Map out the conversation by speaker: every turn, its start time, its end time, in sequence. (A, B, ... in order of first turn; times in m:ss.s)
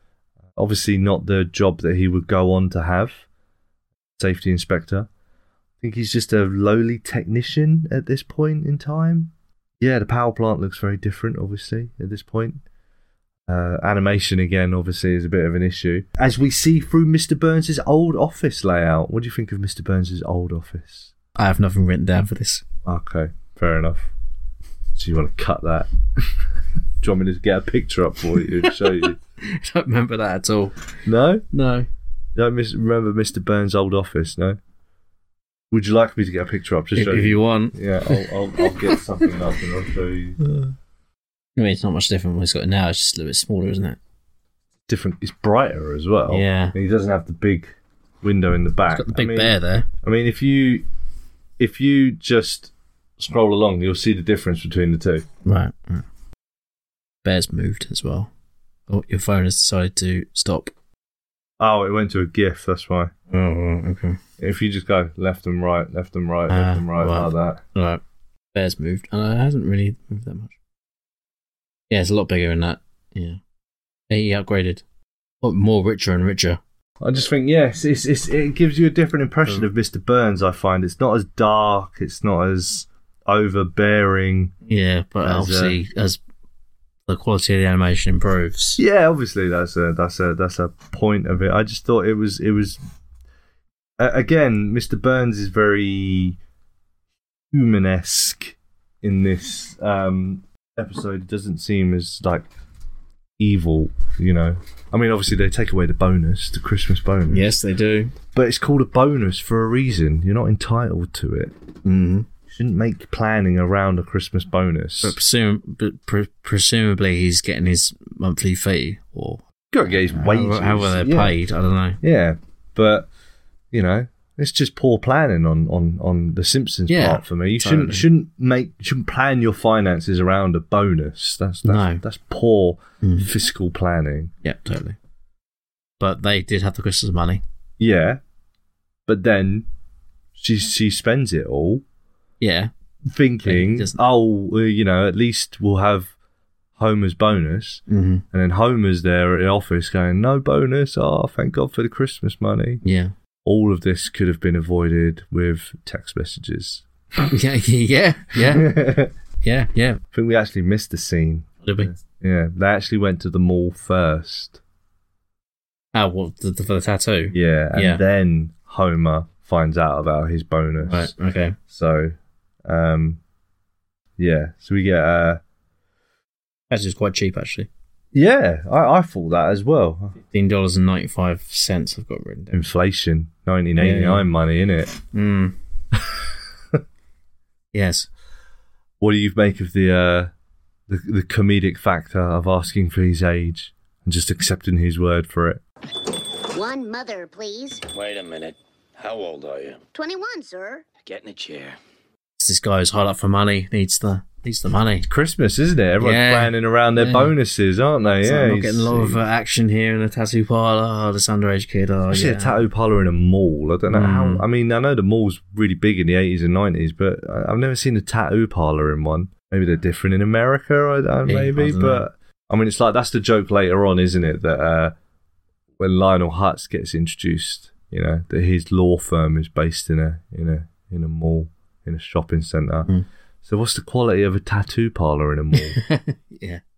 0:00.6-0:03.2 A
0:04.2-0:05.1 A
0:05.8-0:12.6 A
0:13.5-0:21.1 A
0:21.4-0:22.6 B
0:22.8-0:24.1 A
0:24.9-0:25.9 A
0:27.0-0:29.2 A
0:28.6-0:28.9 B
0:29.4-0:30.8 B
0:31.0-0:31.4 A
0:31.5-0:31.9 B
0:32.4-0:34.6 A
0:35.7-0:40.4 A
0:36.9-0:39.3 B
0:40.4-0:40.7 B
0:41.6-0:44.0 B
0:44.9-0:50.8 A
0:46.3-0:46.7 B
0:48.9-0:49.9 B
0:51.6-0:55.2 A
0:55.4-0:56.0 B
0:57.2-0:58.3 B
0:58.9-1:00.7 B
1:01.6-1:03.1 A
1:03.3-1:04.2 B
1:04.4-1:07.6 A
1:06.5-1:08.0 B
1:08.5-1:10.6 B
1:11.9-1:13.4 B
1:14.1-1:14.8 B
1:15.4-1:16.6 B
1:17.0-1:24.5 A
1:24.6-1:26.2 B
1:25.2-1:25.8 A
1:27.1-1:28.8 B
1:28.8-1:32.8 A
1:34.0-1:36.4 A
1:37.5-1:42.4 A
1:43.4-1:47.5 A
1:47.3-1:48.1 B
1:48.3-1:51.6 A
1:51.8-1:52.3 B
1:52.5-1:55.2 A
1:55.0-1:59.4 B
1:59.7-2:01.4 A
2:00.0-2:02.0 B
2:02.0-2:03.1 A
2:03.7-2:14.3 A
2:06.9-2:08.1 B
2:11.6-2:12.0 B
2:13.0-2:13.3 B
2:14.4-2:15.0 B
2:16.0-2:17.4 B
2:17.8-2:18.2 A
2:19.1-2:19.6 A
2:20.4-2:21.8 A
2:22.4-2:22.7 B
2:23.1-2:26.1 A
2:23.4-2:24.0 B
2:26.8-2:32.8 A
2:27.9-2:28.2 B
2:32.8-2:33.1 B
2:33.4-2:36.8 A
2:37.3-2:40.0 B
2:38.4-2:39.1 A
2:40.1-2:44.6 A
2:41.6-2:41.9 B
2:45.9-2:48.0 B
2:47.3-2:51.1 A
2:50.8-2:51.6 B
2:51.7-2:53.2 A
2:54.2-2:55.4 A
2:56.7-2:57.7 B
2:58.1-3:00.2 A
3:00.2-3:02.6 B
3:02.5-3:05.0 A
3:03.8-3:04.2 B
3:05.1-3:05.6 B
3:07.7-3:08.1 B
3:09.0-3:10.3 A
3:10.9-3:15.6 A
3:16.5-3:17.8 C
3:17.9-3:19.8 D
3:19.9-3:20.8 C
3:21.0-3:21.8 D
3:22.4-3:25.1 B
3:25.1-3:29.2 A
3:26.0-3:27.3 B
3:28.2-3:32.6 B
3:32.1-3:44.9 A
3:33.9-3:34.4 B
3:41.2-3:42.0 B
3:45.8-3:52.9 A
3:53.4-3:55.8 A
3:55.5-3:56.6 B